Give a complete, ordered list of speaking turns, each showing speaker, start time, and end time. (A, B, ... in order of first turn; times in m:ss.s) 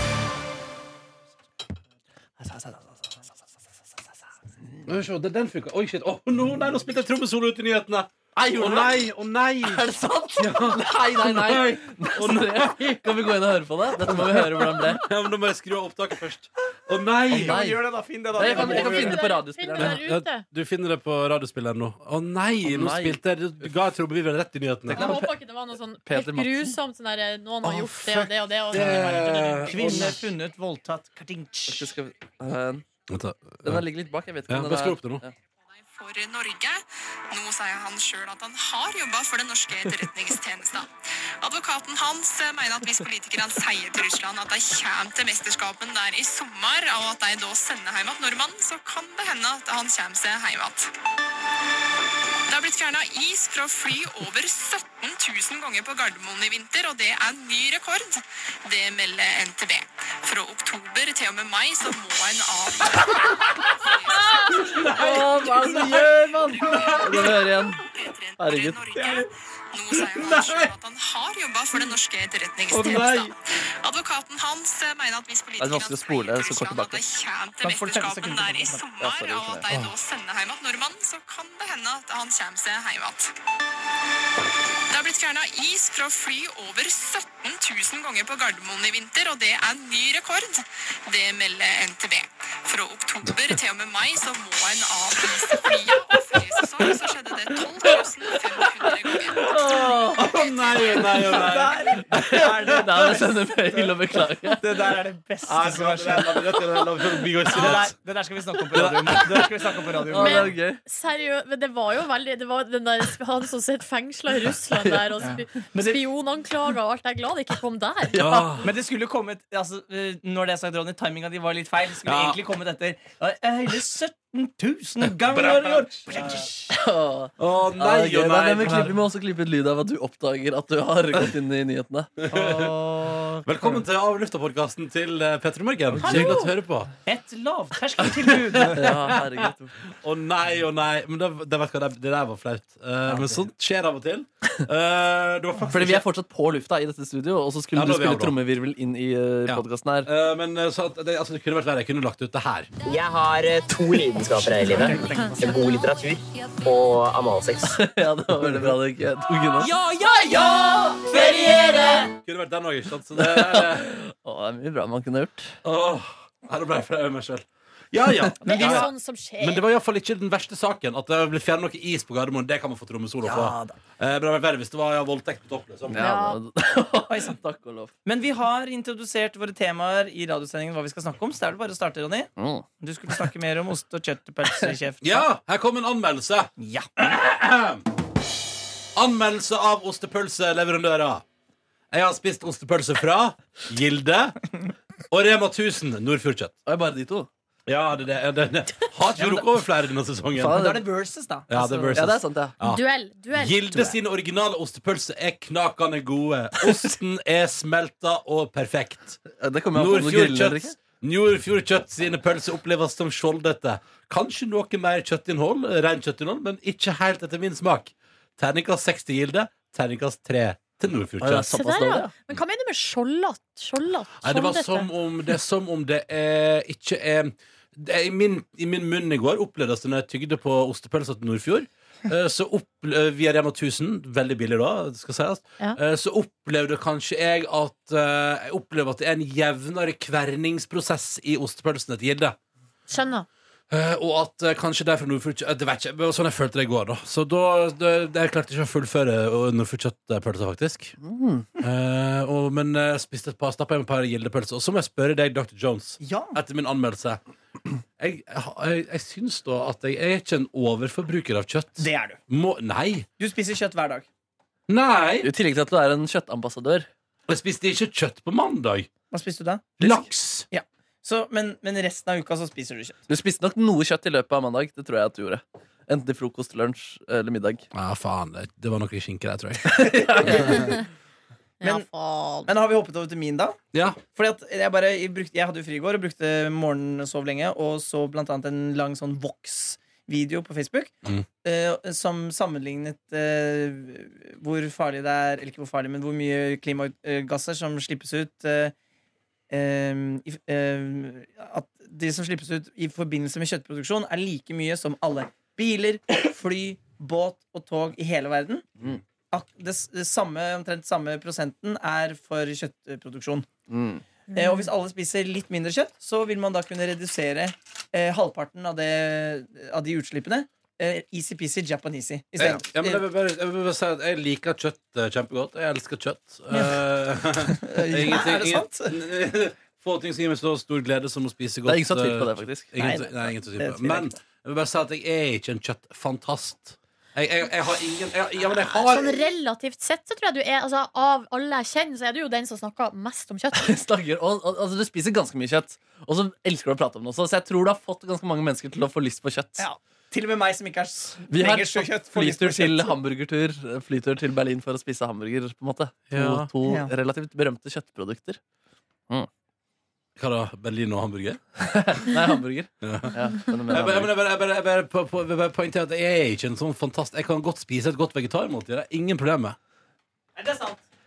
0:02.4-0:03.2 A
0:04.8-0:09.9 B
0:08.4-0:09.1 A
0:09.6-0:15.0 A
0:10.4-0:13.1 B
0:14.1-0:17.7 B
0:17.3-0:19.2 C
0:17.3-0:20.0 A
0:18.4-0:20.4 D
0:19.8-0:25.2 B
0:22.6-0:23.2 A
0:24.9-0:25.3 A
0:25.0-0:30.0 D
0:26.1-0:26.8 A
0:27.6-0:30.2 B
0:28.7-0:31.9 C
0:31.7-0:32.8 A
0:33.1-0:33.9 B
0:33.6-0:35.3 A
0:34.5-0:35.2 B
0:35.9-0:40.9 E
0:41.4-0:50.9 E
0:52.5-1:04.8 E
1:04.5-1:07.3 B
1:04.8-1:07.8 A
1:06.6-1:23.3 E
1:08.4-1:08.8 A
1:09.0-1:09.3 C
1:10.2-1:10.7 B
1:12.7-1:13.3 C
1:15.6-1:17.0 A
1:17.6-1:18.9 C
1:19.0-1:19.7 A
1:19.7-1:19.9 B
1:24.9-1:39.6 E
1:37.8-1:40.3 A
1:40.2-1:43.2 B
1:40.2-1:41.2 E
1:40.8-1:41.3 A
1:41.2-1:46.9 C
1:41.8-1:44.9 A
1:45.4-1:48.0 B
1:47.4-1:50.5 C
1:48.7-1:49.7 B
1:48.7-1:50.8 A
1:50.1-1:58.2 D
1:54.8-1:55.2 A
1:55.2-1:56.0 C
1:58.1-1:58.7 A
1:58.1-1:58.7 B
1:58.6-2:06.7 C
2:02.0-2:02.4 B
2:05.1-2:06.5 B
2:06.7-2:12.1 A
2:07.4-2:09.0 B
2:12.2-2:12.7 B
2:12.3-2:13.8 C
2:13.4-2:16.9 B
2:16.0-2:16.5 C
2:16.2-2:16.4 D
2:17.0-2:19.2 C
2:18.0-2:19.2 B
2:18.7-2:19.8 A
2:19.9-2:26.1 B
2:25.7-2:30.1 A
2:27.7-2:28.4 B
2:29.5-2:32.7 B
2:32.9-2:37.8 F
2:34.6-2:35.4 C
2:37.7-2:39.7 A
2:39.7-2:42.0 C
2:40.0-2:42.1 D
2:42.2-2:44.0 B
2:43.2-2:45.6 A
2:45.6-2:56.1 B
2:48.4-2:48.9 C
2:48.4-2:49.6 D
2:53.2-2:53.8 C
2:55.9-2:57.9 A
2:56.0-2:56.4 D
2:57.1-2:57.4 C
2:58.0-3:05.3 C
3:02.4-3:02.7 A
3:05.0-3:07.8 B
3:06.6-3:07.0 C
3:09.0-3:11.2 B
3:11.9-3:14.4 B
3:15.1-3:16.6 B
3:16.7-3:17.3 A
3:17.7-3:20.7 B
3:19.2-3:19.5 C
3:20.4-3:20.8 A
3:20.5-3:22.0 C
3:21.5-3:22.8 B
3:21.9-3:22.6 A
3:22.6-3:24.0 D
3:23.4-3:29.2 B
3:29.3-3:30.8 A
3:29.7-3:41.5 B
3:41.2-3:42.1 A
3:41.5-3:44.9 D
3:44.2-4:02.4 B
4:02.9-4:03.3 D
4:03.7-4:11.0 B
4:11.0-4:11.5 A
4:11.6-4:17.2 B
4:16.0-4:16.4 C
4:18.0-4:23.1 B
4:21.8-4:22.2 C
4:23.2-4:24.1 C
4:24.7-4:25.3 B
4:25.2-4:26.9 A
4:27.3-4:28.9 B
4:29.1-4:33.0 C
4:29.8-4:30.5 B
4:33.1-4:37.7 A
4:37.7-4:40.8 B
4:39.6-4:40.8 A
4:40.0-4:40.7 C
4:41.6-4:42.5 D
4:42.5-4:43.6 C
4:43.7-4:44.0 B
4:44.1-4:58.7 C
4:59.5-5:08.7 C
5:09.3-5:13.5 C
5:13.7-5:14.0 A
5:14.3-5:14.7 D
5:14.3-5:23.0 C
5:22.4-5:39.3 B
5:26.5-5:26.8 C
5:27.4-5:29.0 C
5:31.7-5:32.8 A
5:32.8-5:34.2 C
5:38.7-5:43.7 D
5:43.5-5:49.7 A
5:49.6-5:53.0 C
5:51.3-5:58.4 A
5:56.1-5:56.5 B
5:56.6-5:56.9 C
6:00.2-6:01.4 B
6:01.6-6:04.1 A
6:02.8-6:09.6 B
6:10.4-6:10.8 C